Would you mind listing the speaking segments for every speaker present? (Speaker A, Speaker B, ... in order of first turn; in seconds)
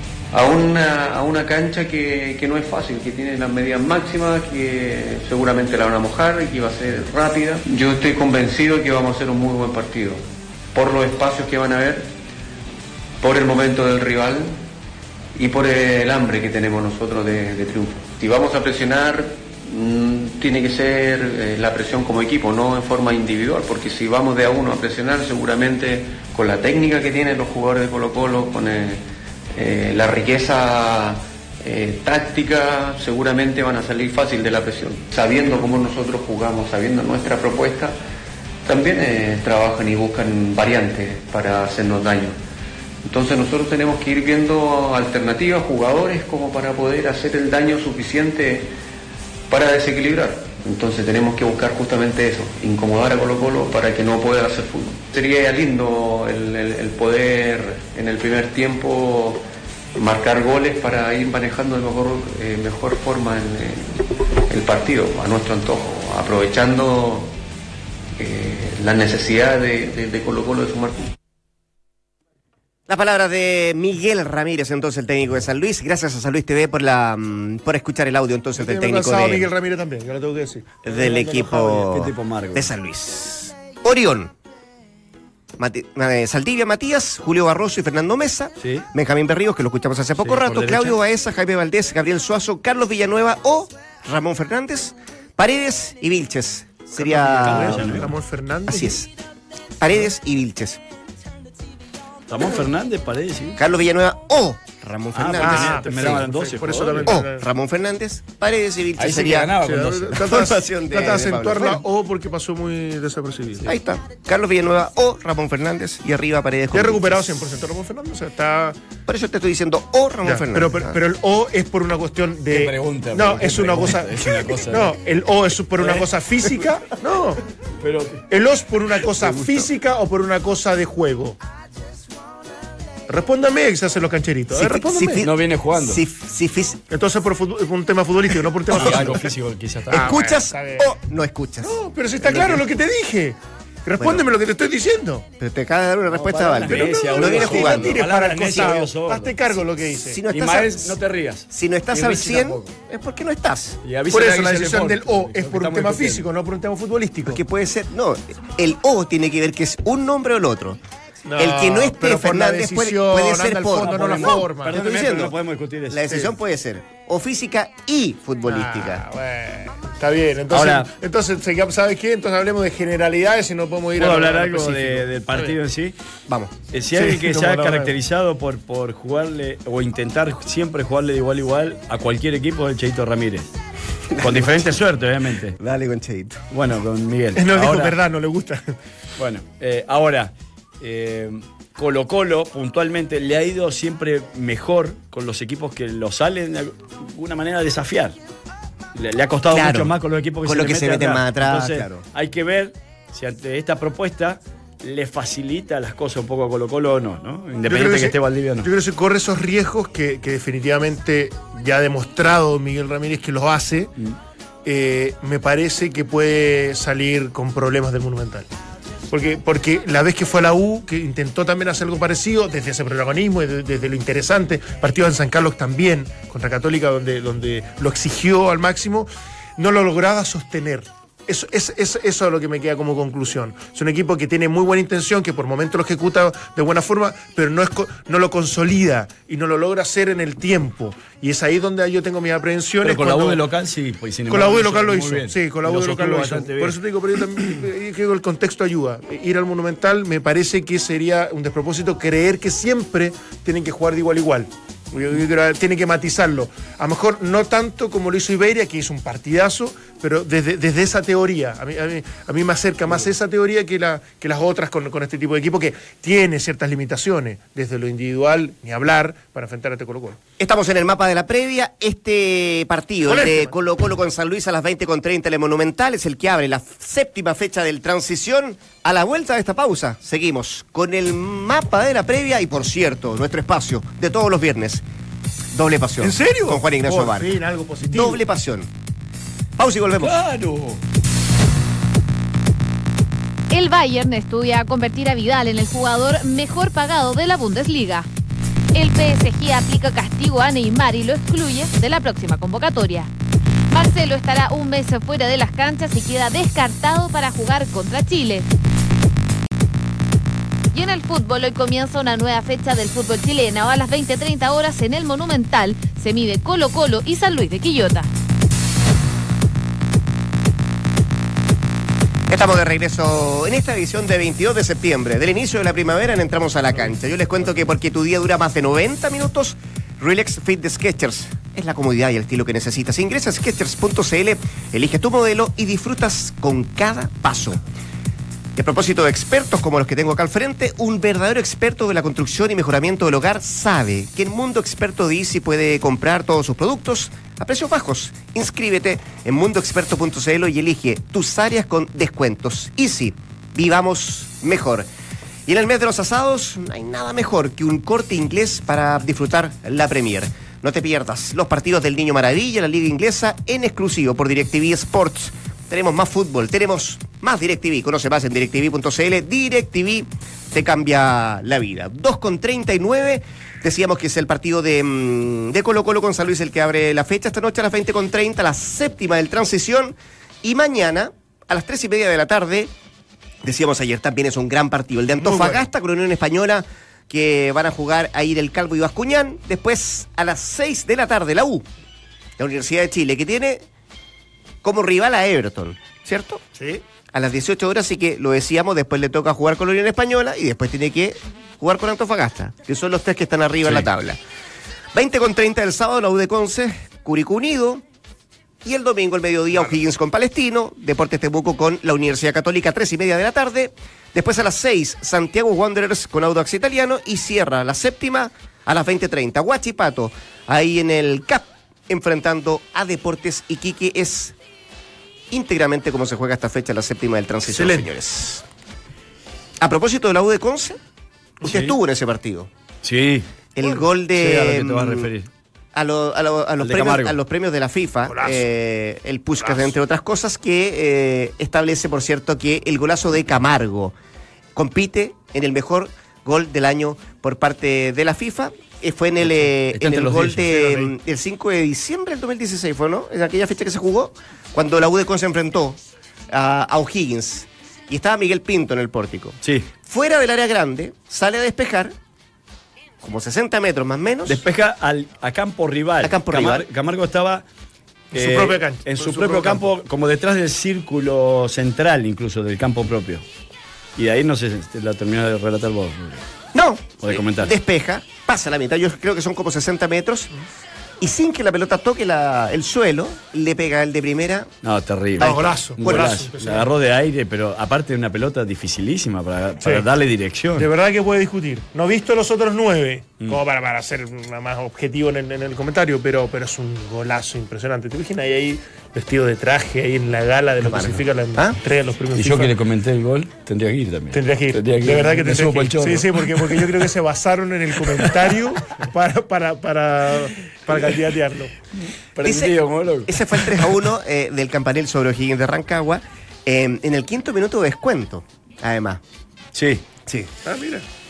Speaker A: 0.3-10.2, 10.7-12.1, 13.2-14.6, 15.4-29.0, 29.6-37.9, 38.6-42.4, 43.0-48.7, 49.5-59.4, 59.9-64.0, 64.5-67.3, 68.2-71.1
Speaker B: 72.9-79.5, 80.8-84.3, 85.6-98.1, 98.7-99.1, 99.8-100.8, 103.6-106.2, 107.1-109.5, 110.2-111.8, 113.6-117.2, 119.1-121.0, 134.5-136.8, 139.9-141.7, 144.0-144.2, 145.4-148.0, 150.0-150.9, 151.5-153.8, 157.2-160.8, 161.4-165.3, 165.9-169.0, 184.1-184.7, 185.6-186.4, 199.5-202.0, 270.4-284.8, 285.5-288.7, 289.6-290.2, 322.3-337.6, 338.6-354.9, 355.5-382.7, 383.4-391.6, 392.4-393.6, 394.6-396.4, 397.1-404.2, 404.9-407.8, 408.6-424.3, 425.3-428.4, 429.6-430.8, 431.4-432.5, 433.6-435.1, 435.7-443.9, 444.6-455.8, 456.3-461.9, 463.0-464.4, 466.0-466.6, 476.5-480.3, 481.0-484.5, 485.2-486.1, 500.6-501.6, 512.2-519.0
Speaker C: 78.6-81.7, 97.0-99.0, 105.4-107.5, 109.6-113.7, 116.7-118.8, 120.2-127.4, 128.3-131.3, 133.1-135.2, 136.9-139.3, 139.9-140.9, 141.6-145.2, 146.6-150.2, 154.1-157.4, 161.2-164.8, 168.4-175.6, 176.9-177.9, 187.3-188.7, 207.7-213.9, 214.6-218.5, 219.1-243.4, 244.3-270.2, 273.0-273.5, 286.0-288.2, 385.2-385.6, 396.6-396.8, 427.5-427.9, 438.1-438.4, 439.4-439.7, 468.1-469.7, 485.2-486.7, 490.6-502.5, 504.1-511.5, 520.4-520.8
Speaker D: 81.3-82.7, 88.6-88.8, 90.2-91.0, 97.3-98.1, 102.3-103.6, 105.1-107.2, 109.0-110.3, 122.5-124.9, 125.8-126.6, 127.8-128.2, 129.2-129.7, 135.2-136.0, 138.7-140.1, 142.3-142.6, 146.1-149.3, 150.3-152.7, 153.8-156.2, 163.8-166.0, 170.5-170.9, 174.0-175.9, 176.7-183.5, 184.2-185.6, 186.5-187.9, 189.2-198.2, 198.9-208.7, 242.8-246.8, 290.0-290.8, 431.4-431.7, 432.8-433.3, 434.1-435.3, 436.6-437.2, 449.7-450.8, 459.4-459.7, 464.2-467.4, 468.1-473.2, 474.0-476.2, 477.0-477.5, 484.6-490.6, 502.1-506.6, 512.1-513.2, 519.5-519.8
Speaker E: 293.5-298.1, 298.7-303.1, 303.7-308.4, 310.7-318.1